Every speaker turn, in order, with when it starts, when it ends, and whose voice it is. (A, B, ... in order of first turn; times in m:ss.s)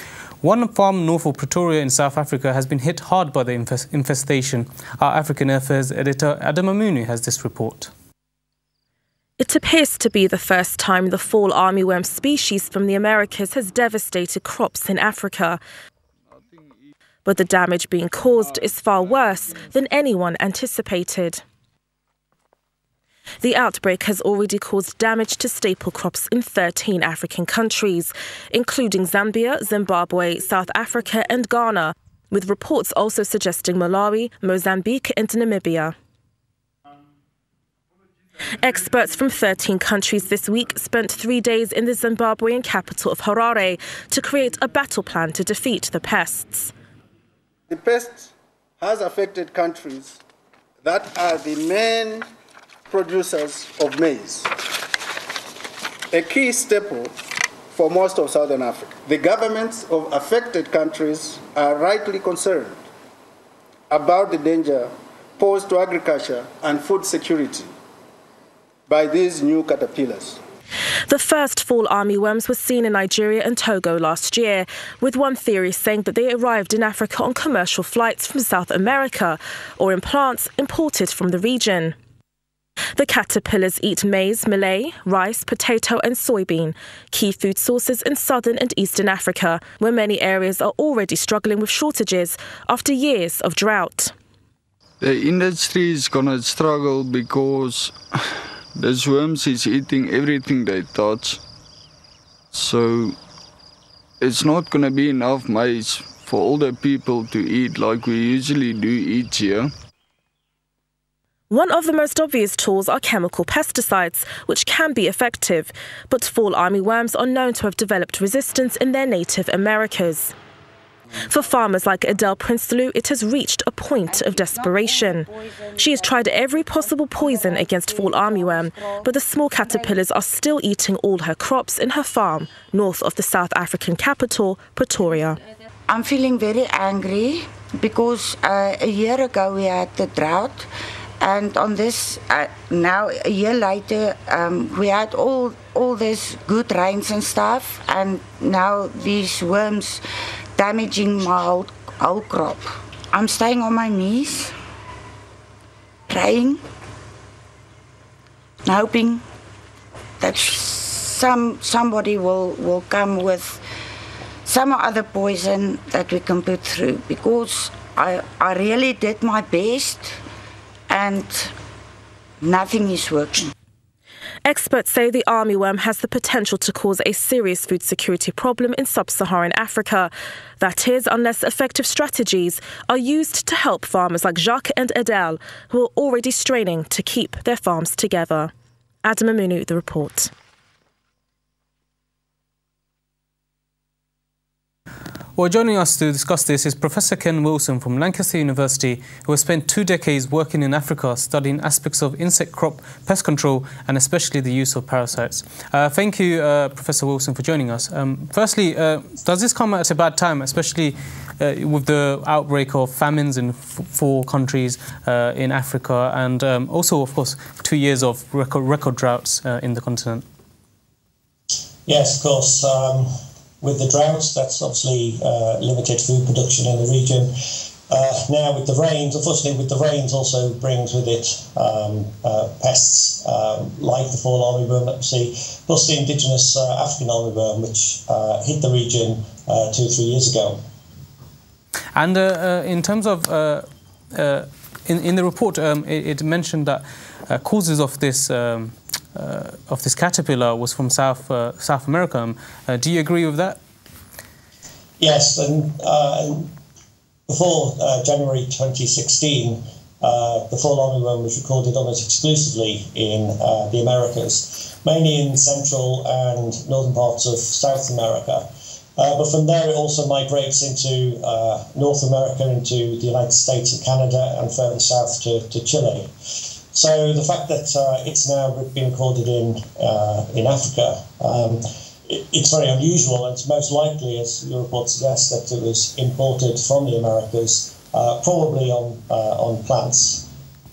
0:00.4-0:07.9 A
0:09.4-0:15.6 B
0:17.2-0:21.4 B
0:23.4-0:35.9 B
0:38.6-0:46.7 B
0:47.7-0:50.2 C
0:50.8-0:52.3 C
0:52.9-0:54.5 C
0:56.1-0:57.1 C
0:57.7-1:02.8 C
1:03.9-1:07.7 C
1:08.9-1:10.4 C
1:11.1-1:21.9 B
1:23.0-1:34.1 B
1:35.0-1:38.2 D
1:38.7-1:41.4 D
1:42.5-1:43.2 D
1:44.2-1:49.7 D
1:51.5-2:00.3 B
2:01.3-2:15.4 B
2:04.1-2:06.5 E
2:07.2-2:09.0 E
2:15.9-2:20.7 E
2:21.2-2:30.0 E
2:30.5-2:34.5 E
2:36.1-2:36.6 E
2:38.6-2:39.2 E
2:40.2-2:43.6 E
2:44.4-2:50.1 E
2:50.9-2:51.5 E
2:52.4-2:53.5 E
2:54.4-3:08.5 B
3:09.0-3:10.3 B
3:15.4-3:40.2 A
3:41.8-3:43.1 F
3:43.6-3:47.3 F
3:47.9-4:00.6 F
4:01.9-4:13.6 A
4:15.0-4:16.5 F
4:17.3-4:28.4 F
4:29.0-4:50.2 F